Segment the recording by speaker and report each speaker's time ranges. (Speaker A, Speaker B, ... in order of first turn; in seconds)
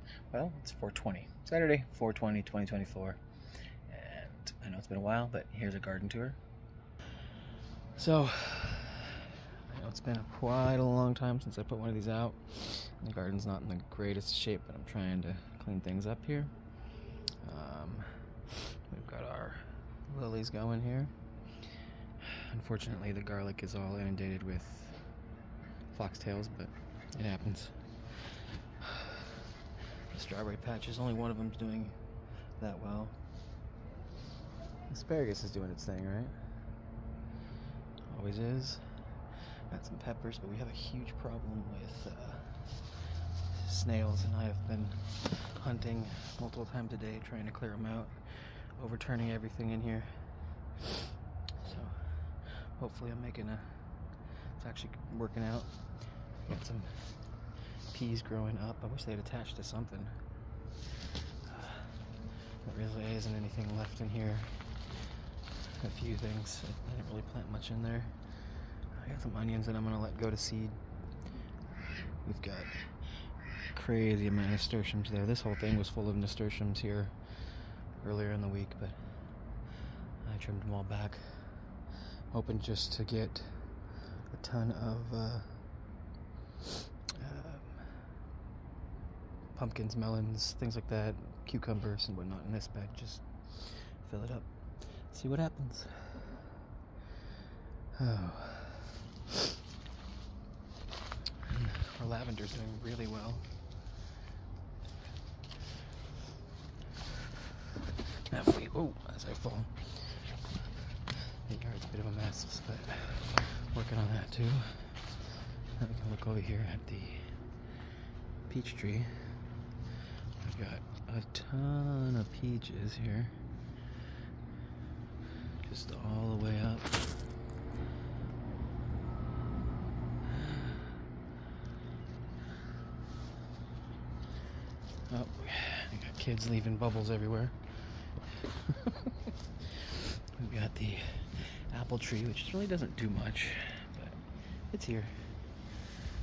Speaker A: 0.3-3.2, 3.9-6.4, 7.9-16.5, 17.4-21.1, 22.2-25.1, 25.9-29.4, 30.1-32.0, 32.6-33.2, 34.9-36.5, 38.1-55.7, 56.4-57.2, 57.9-60.2, 61.4-62.1, 62.6-64.9, 65.6-70.8, 72.2-79.1, 80.2-81.8, 82.3-85.6, 87.1-88.1, 89.5-96.6, 97.9-99.0, 101.4-103.5, 108.3-110.3, 111.2-117.3, 118.5-119.4, 120.4-123.3, 125.6-127.0, 135.1-145.5